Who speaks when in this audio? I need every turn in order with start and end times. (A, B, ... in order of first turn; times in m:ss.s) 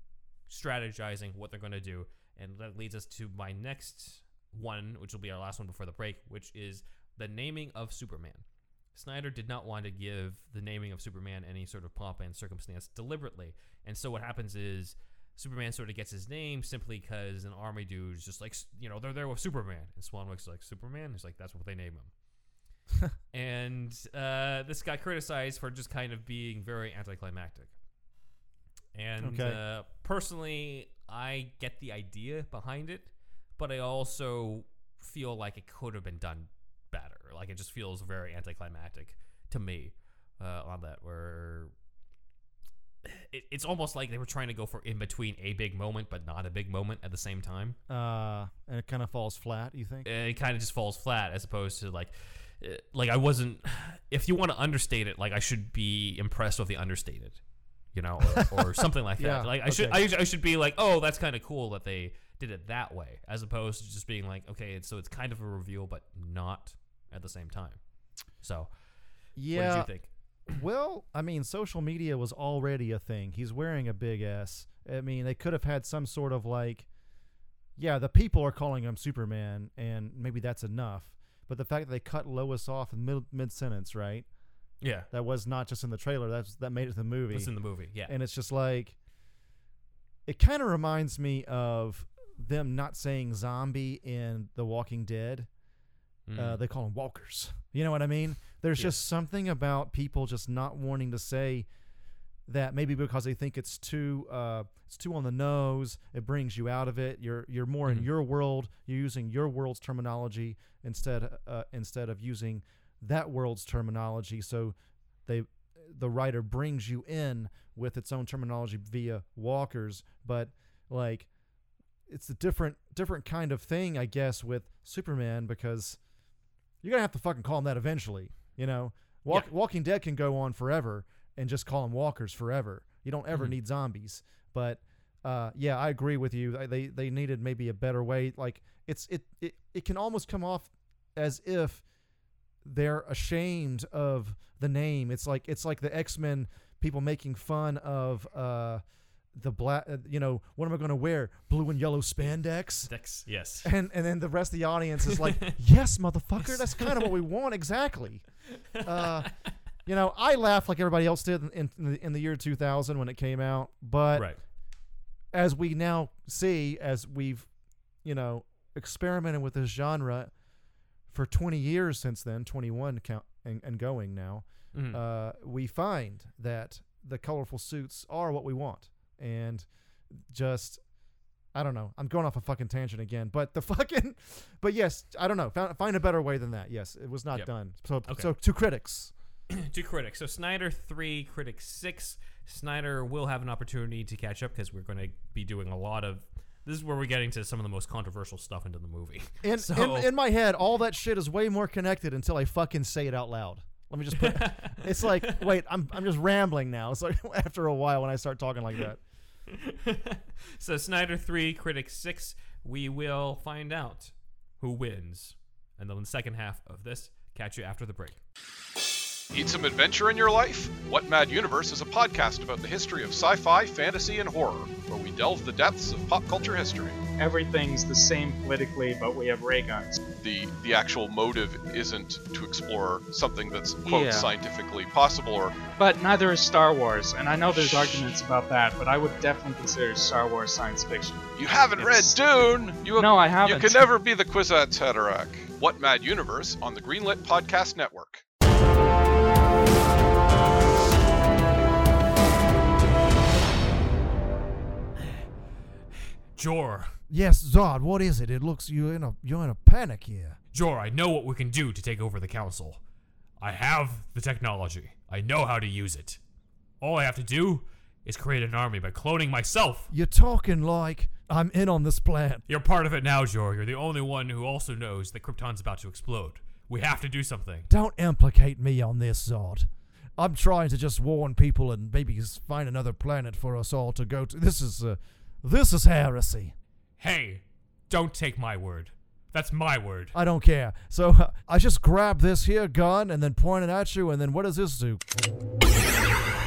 0:00.5-0:22.1 A
0:23.3-0:27.7 A
0:28.9-0:41.7 A
0:29.2-0:29.6 B
0:43.0-0:47.8 A
0:47.9-0:50.1 B
0:50.0-0:57.4 A
0:57.9-1:08.7 A
0:58.3-1:00.0 B
1:09.4-1:09.9 B
1:09.5-1:10.1 A
1:10.5-1:16.9 B
1:17.8-1:24.3 B
1:24.8-1:25.1 A
1:25.1-1:29.0 B
1:27.3-1:28.1 A
1:30.2-1:35.5 B
1:36.3-1:36.6 A
1:36.4-1:41.7 B
1:42.5-1:54.7 B
1:55.2-2:01.3 B
2:02.1-2:06.0 B
2:06.8-2:21.8 B
2:22.6-2:28.8 B
2:29.3-2:32.9 B
2:32.9-2:33.7 A
2:33.6-2:38.2 B
2:35.0-2:35.6 A
2:36.4-2:37.1 A
2:38.7-2:39.5 A
2:38.8-2:39.3 B
2:39.8-2:44.3 B
2:45.3-2:47.5 B
2:48.0-2:50.3 B
2:51.1-3:00.8 B
2:54.7-2:55.0 A
3:01.5-3:09.1 B
3:08.0-3:08.3 A
3:09.5-3:20.1 A
3:19.4-3:29.0 B
3:24.2-3:25.4 A
3:29.5-3:38.2 A
3:39.3-3:47.0 C
3:47.2-3:50.0 D
3:50.2-3:55.6 C
3:53.8-3:54.3 D
3:55.8-4:02.4 D
3:57.5-3:58.2 C
4:01.4-4:08.2 C
4:02.9-4:03.9 D
4:16.3-4:17.0 A
4:17.1-4:20.4 B
4:20.5-4:22.8 A
4:23.4-4:26.2 A
4:26.8-4:29.9 A
4:29.9-4:32.4 B
4:32.5-4:37.7 A
4:37.7-4:46.5 B
4:47.0-4:50.2 A
4:50.1-4:55.0 B